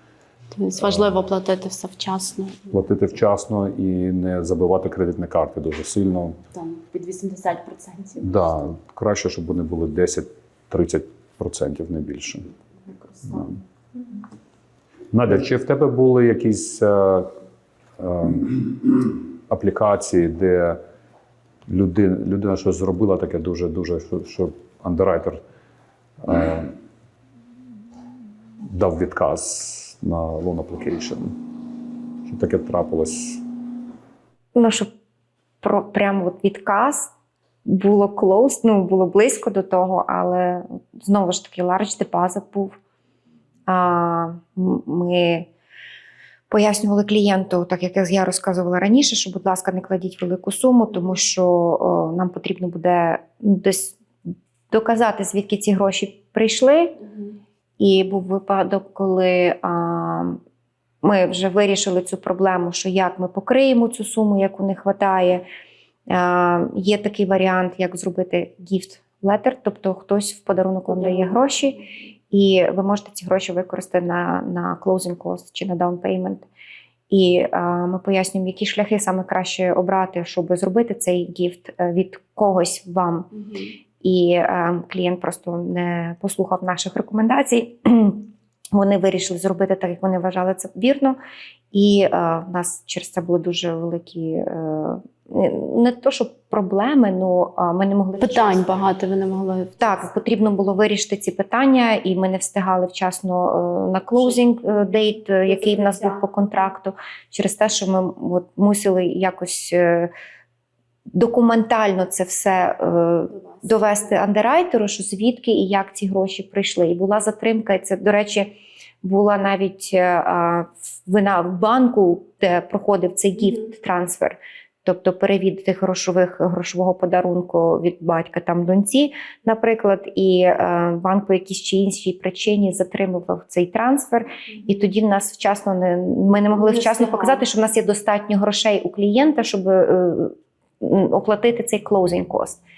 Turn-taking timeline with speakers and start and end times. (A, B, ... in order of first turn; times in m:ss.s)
0:00.5-0:02.7 A
0:00.8-0:01.2 B
0:02.7-0:06.4 B
0:06.5-0:08.4 A
0:08.2-0:12.5 B
0:12.9-0:13.6 A
0:15.1-0:17.3 B
0:18.0-0:20.8 B
0:21.7-0:25.4 B
0:26.2-0:26.7 B
0:28.7-0:31.4 B
0:32.2-0:33.4 B
0:34.6-0:34.9 C
0:35.6-0:37.1 C
0:37.6-0:42.8 C
0:43.7-0:45.5 C
0:46.5-0:57.0 C
0:57.8-1:00.4 C
1:01.0-1:05.4 C
1:06.1-1:11.8 C
1:10.9-1:11.4 A
1:12.3-1:16.5 C
1:17.1-1:23.3 C
1:23.3-1:23.7 A
1:24.0-1:31.2 C
1:31.7-1:38.7 C
1:38.2-1:40.0 A
1:39.8-1:50.1 C
1:45.5-1:46.2 A
1:51.1-2:22.6 C
1:53.3-1:53.7 A
2:16.5-2:17.4 A